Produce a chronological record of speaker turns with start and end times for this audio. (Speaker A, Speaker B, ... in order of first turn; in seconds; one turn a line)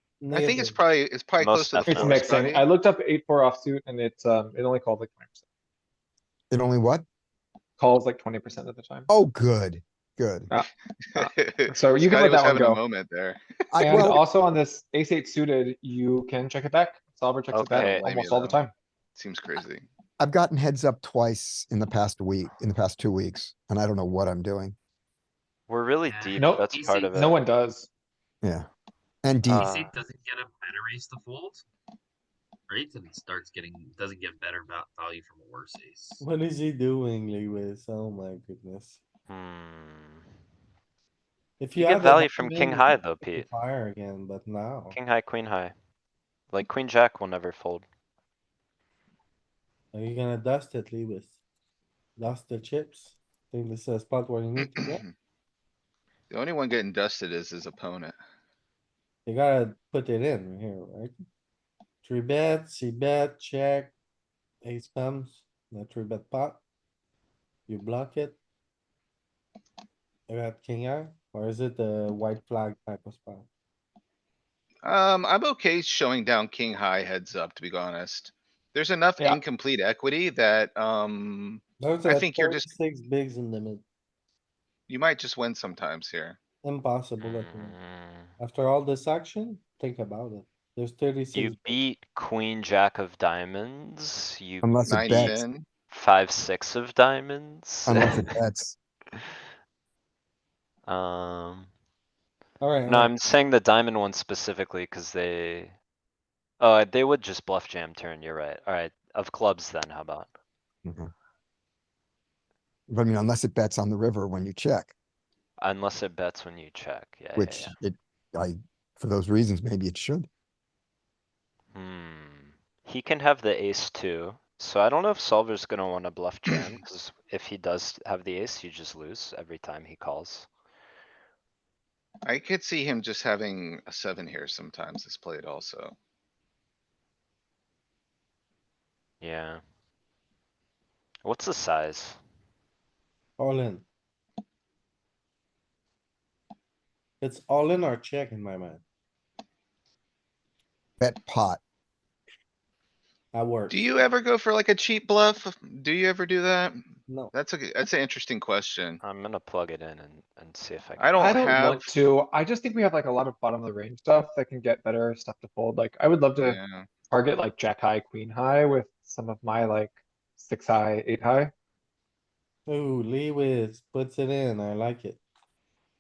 Speaker A: 0.2-0.8
Speaker B: 0.3-2.7
Speaker C: 1.4-2.2
Speaker D: 1.8-5.4
Speaker E: 6.5-7.0
Speaker D: 7.8-9.1
Speaker E: 9.1-10.5
Speaker D: 10.5-12.8
Speaker B: 11.0-13.9
Speaker E: 13.7-14.2
Speaker D: 13.8-18.7
Speaker C: 17.5-18.1
Speaker B: 17.7-18.6
Speaker B: 19.1-19.9
Speaker E: 20.2-24.8
Speaker C: 25.7-27.3
Speaker F: 26.0-27.4
Speaker D: 26.4-27.9
Speaker E: 28.4-28.7
Speaker E: 29.2-29.7
Speaker C: 29.5-30.0
Speaker F: 29.5-31.6
Speaker F: 32.7-36.2
Speaker A: 36.2-39.0
Speaker C: 39.3-40.2
Speaker A: 41.6-45.0
Speaker C: 41.8-43.5
Speaker C: 44.9-45.7
Speaker C: 46.5-47.9
Speaker A: 49.9-51.3
Speaker A: 52.2-55.0
Speaker B: 54.6-55.1
Speaker B: 56.3-58.2
Speaker A: 59.3-61.2
Speaker A: 62.0-63.9
Speaker A: 64.6-66.6
Speaker A: 67.7-68.4
Speaker A: 70.3-73.5
Speaker B: 74.8-82.8
Speaker A: 81.8-83.8
Speaker B: 84.9-86.4
Speaker A: 86.6-87.8
Speaker C: 87.2-88.3
Speaker A: 88.4-91.6
Speaker C: 91.3-98.2
Speaker E: 94.6-95.4
Speaker B: 94.9-95.7
Speaker E: 97.9-98.8
Speaker C: 100.9-101.7
Speaker A: 102.6-103.1
Speaker C: 102.9-105.8
Speaker C: 106.6-110.3
Speaker E: 110.8-111.1
Speaker E: 112.9-114.9
Speaker C: 115.6-117.7
Speaker E: 117.4-120.3
Speaker C: 121.7-130.5
Speaker B: 132.2-136.0
Speaker C: 139.2-139.6
Speaker C: 141.2-142.2
Speaker A: 143.4-143.9
Speaker A: 147.2-148.8
Speaker E: 151.0-151.6
Speaker A: 153.3-153.8
Speaker B: 153.7-159.0
Speaker A: 157.1-157.3
Speaker C: 159.0-161.4
Speaker B: 161.0-161.9
Speaker D: 161.2-171.5
Speaker B: 166.4-167.0
Speaker A: 172.7-175.2